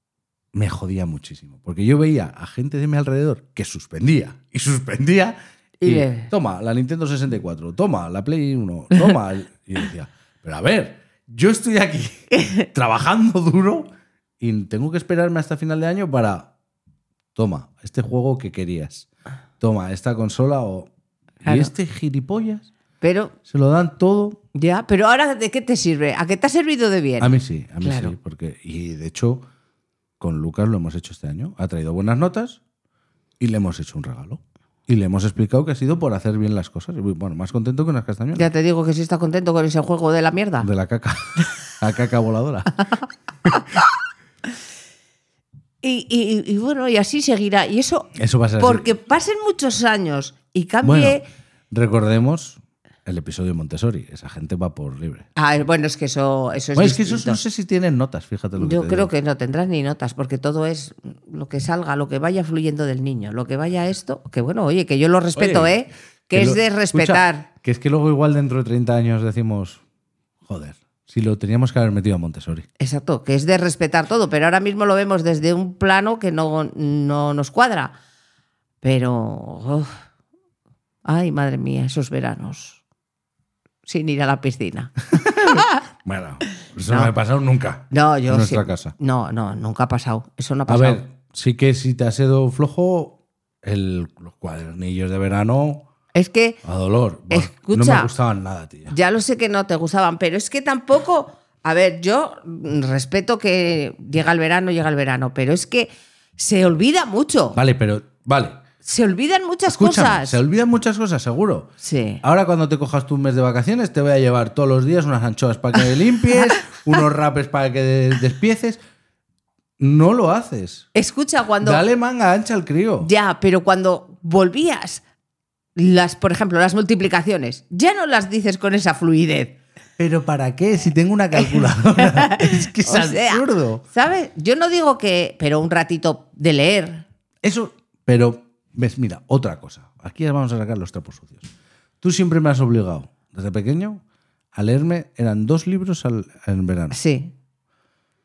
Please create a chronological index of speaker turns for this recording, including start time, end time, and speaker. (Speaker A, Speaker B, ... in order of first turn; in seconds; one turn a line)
Speaker A: 0.5-13.9
Speaker B: 5.8-6.3
Speaker B: 12.3-12.7
Speaker A: 14.4-16.5
Speaker A: 17.4-19.1
Speaker A: 19.6-20.9
Speaker A: 21.4-22.7
Speaker B: 21.4-21.7
Speaker B: 23.0-23.4
Speaker A: 23.5-24.4
Speaker B: 24.5-28.1
Speaker A: 27.2-29.4
Speaker A: 30.2-32.6
Speaker A: 33.4-38.5
Speaker B: 38.4-40.7
Speaker A: 40.6-42.8
Speaker B: 45.8-51.3
Speaker A: 48.1-48.9
Speaker A: 50.8-51.2
Speaker A: 51.7-55.3
Speaker B: 55.4-57.4
Speaker A: 56.8-59.1
Speaker B: 58.6-67.5
Speaker A: 65.4-65.8
Speaker A: 66.3-69.8
Speaker A: 70.5-72.7
Speaker B: 72.8-78.0
Speaker B: 78.8-79.9
Speaker B: 81.0-82.8
Speaker B: 83.9-85.8
Speaker A: 85.2-89.0
Speaker B: 86.9-87.1
Speaker B: 87.9-91.0
Speaker A: 90.7-95.9
Speaker B: 96.1-96.6
Speaker A: 96.6-98.9
Speaker B: 97.3-98.1
Speaker B: 98.9-107.6
Speaker A: 107.5-108.6
Speaker B: 108.8-110.4
Speaker A: 109.7-111.7
Speaker B: 111.8-112.2
Speaker A: 112.2-118.8
Speaker B: 116.3-116.7
Speaker A: 119.8-120.9
Speaker B: 120.9-121.8
Speaker A: 121.6-123.1
Speaker B: 123.0-125.0
Speaker B: 125.8-129.6
Speaker A: 130.0-133.8
Speaker B: 131.3-137.0
Speaker A: 137.4-144.0
Speaker A: 144.6-147.0
Speaker B: 146.9-147.3